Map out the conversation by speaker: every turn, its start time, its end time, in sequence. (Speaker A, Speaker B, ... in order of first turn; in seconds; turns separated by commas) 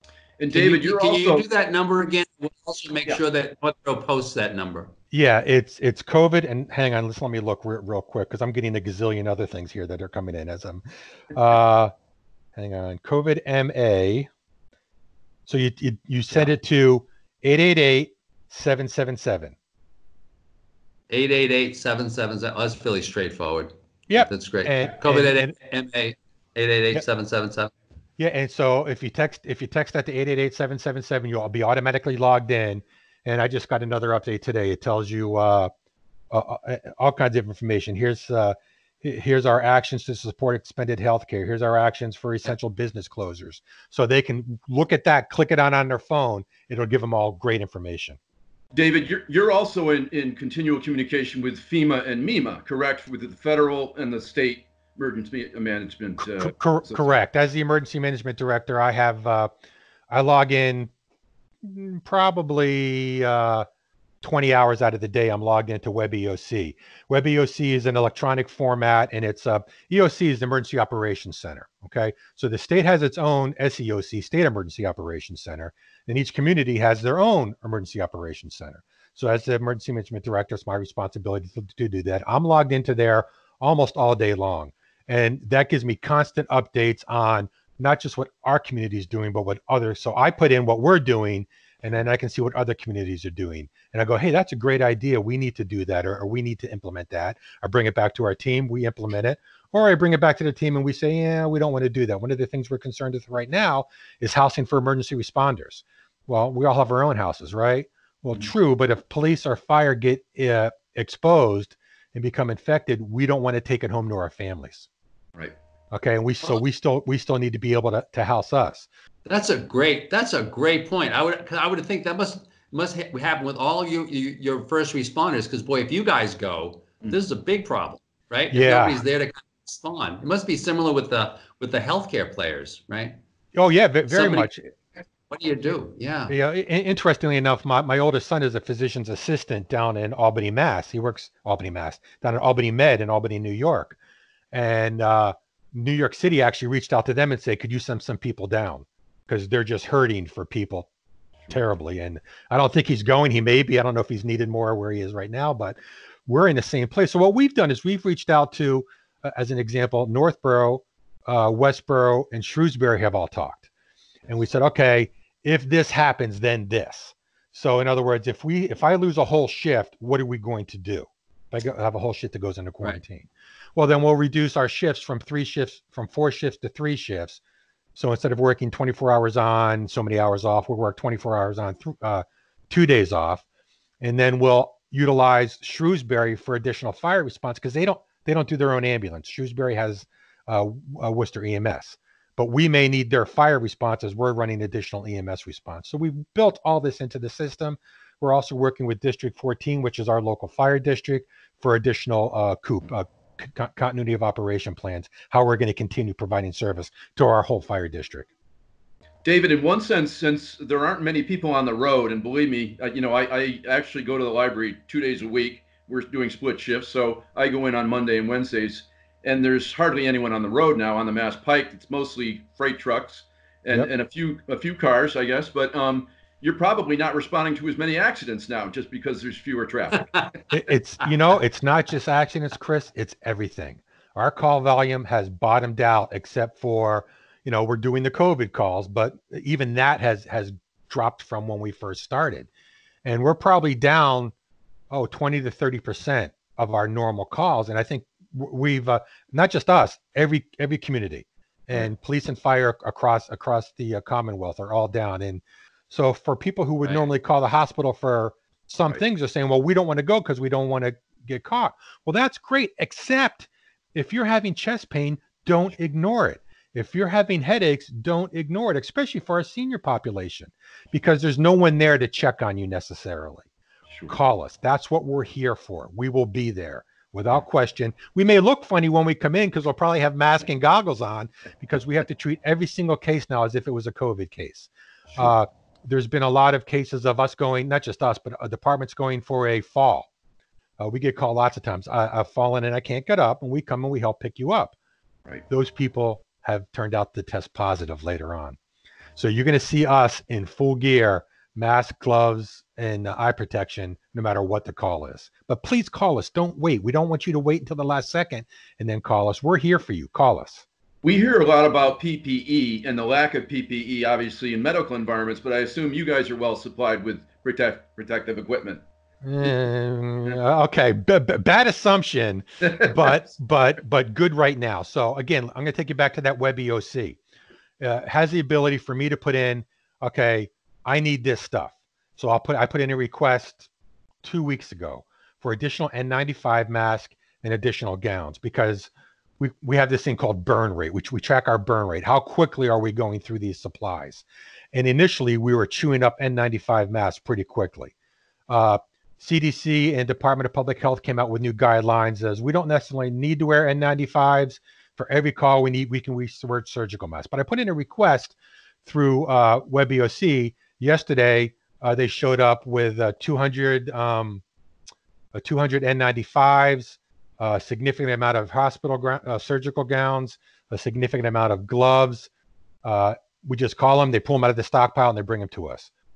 Speaker A: 0.4-1.4, Speaker B: 0.5-4.9, Speaker C: 5.1-11.9, Speaker C: 12.6-14.3, Speaker C: 15.5-19.6, Speaker B: 21.1-27.7, Speaker C: 24.1-25.5, Speaker C: 28.2-35.7, Speaker C: 36.3-48.2, Speaker A: 48.7-57.1, Speaker C: 56.2-59.5, Speaker C: 60.1-60.9, Speaker C: 61.6-63.6, Speaker C: 64.2-114.9, Speaker C: 115.9-118.9, Speaker B: 119.2-133.2, Speaker C: 128.5-129.0, Speaker C: 133.5-134.6, Speaker B: 134.1-134.5, Speaker B: 135.2-136.3, Speaker C: 136.3-143.9, Speaker C: 144.5-150.9, Speaker C: 151.5-163.7, Speaker C: 164.3-177.4, Speaker C: 177.9-183.4, Speaker C: 184.0-208.3, Speaker A: 209.2-230.3, Speaker C: 230.5-242.5, Speaker C: 243.0-244.3, Speaker C: 244.9-273.5, Speaker C: 274.1-290.1, Speaker C: 290.8-294.8, Speaker C: 295.5-298.6, Speaker C: 299.2-310.6, Speaker A: 311.0-318.8, Speaker C: 319.2-327.2, Speaker A: 322.6-322.9, Speaker C: 327.8-333.7, Speaker C: 334.2-347.9, Speaker C: 348.5-364.4, Speaker C: 365.3-372.3, Speaker C: 372.8-375.9